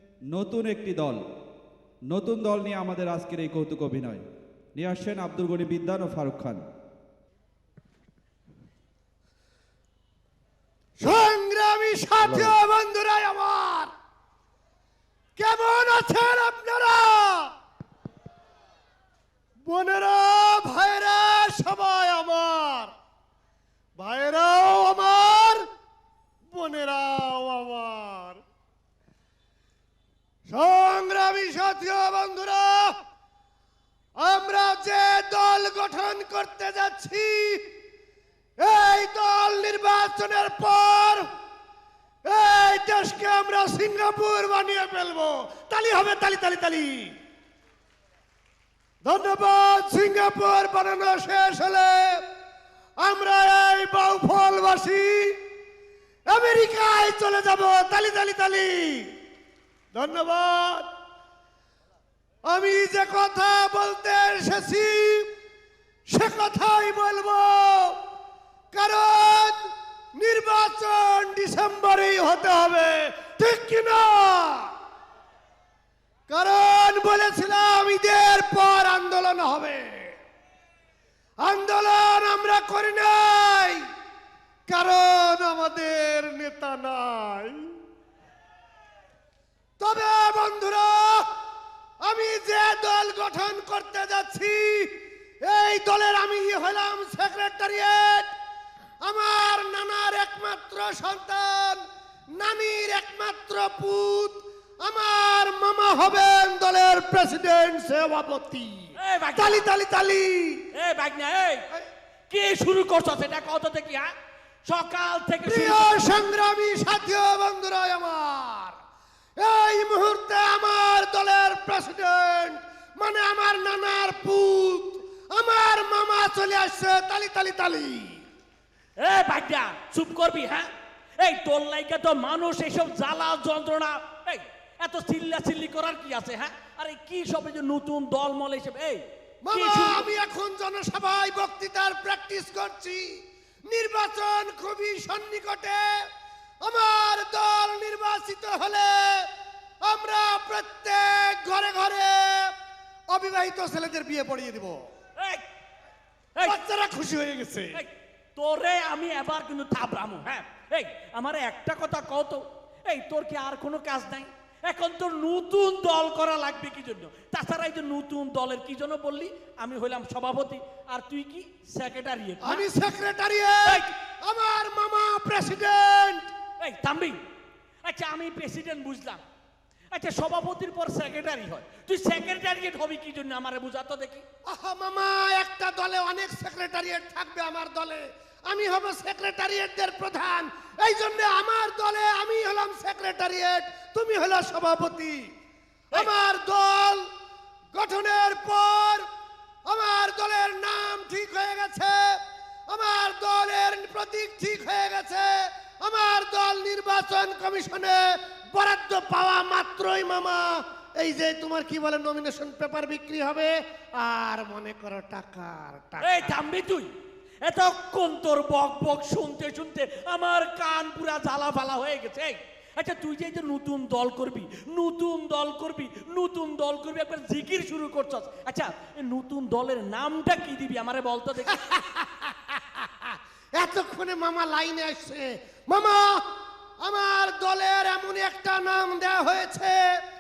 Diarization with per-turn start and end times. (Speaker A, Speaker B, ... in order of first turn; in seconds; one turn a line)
Speaker A: 0.3-1.2
Speaker A: 2.1-4.2
Speaker A: 4.8-6.7
Speaker B: 11.0-13.9
Speaker B: 15.4-17.5
Speaker B: 19.6-22.9
Speaker B: 24.0-25.6
Speaker B: 26.5-28.4
Speaker B: 30.5-32.9
Speaker B: 34.2-37.6
Speaker B: 38.6-41.2
Speaker B: 42.3-47.1
Speaker B: 49.0-52.2
Speaker B: 53.0-55.4
Speaker B: 56.3-59.1
Speaker B: 59.9-60.9
Speaker B: 62.5-65.3
Speaker B: 66.1-68.0
Speaker B: 68.7-69.6
Speaker B: 70.2-74.7
Speaker B: 76.3-80.2
Speaker B: 81.4-83.8
Speaker B: 84.7-87.6
Speaker B: 89.8-91.2
Speaker B: 92.0-94.9
Speaker B: 95.4-98.3
Speaker B: 99.0-101.8
Speaker B: 102.3-110.7
Speaker C: 109.0-109.7
Speaker C: 110.7-111.7
Speaker C: 112.3-114.1
Speaker C: 114.6-116.0
Speaker B: 115.5-118.8
Speaker B: 119.4-128.2
Speaker C: 129.0-140.1
Speaker B: 139.4-146.1
Speaker B: 146.6-149.3
Speaker B: 149.8-152.5
Speaker B: 153.1-154.9
Speaker C: 155.2-155.4
Speaker B: 156.4-157.8
Speaker C: 157.7-172.7
Speaker B: 172.4-176.3
Speaker C: 173.7-173.9
Speaker C: 176.6-177.2
Speaker C: 177.8-179.2
Speaker C: 179.9-184.2
Speaker B: 184.5-195.2
Speaker B: 195.9-197.1
Speaker B: 197.7-199.1
Speaker B: 199.7-216.3
Speaker C: 216.0-216.9
Speaker C: 217.4-231.7
Speaker B: 231.5-236.2
Speaker B: 236.8-240.0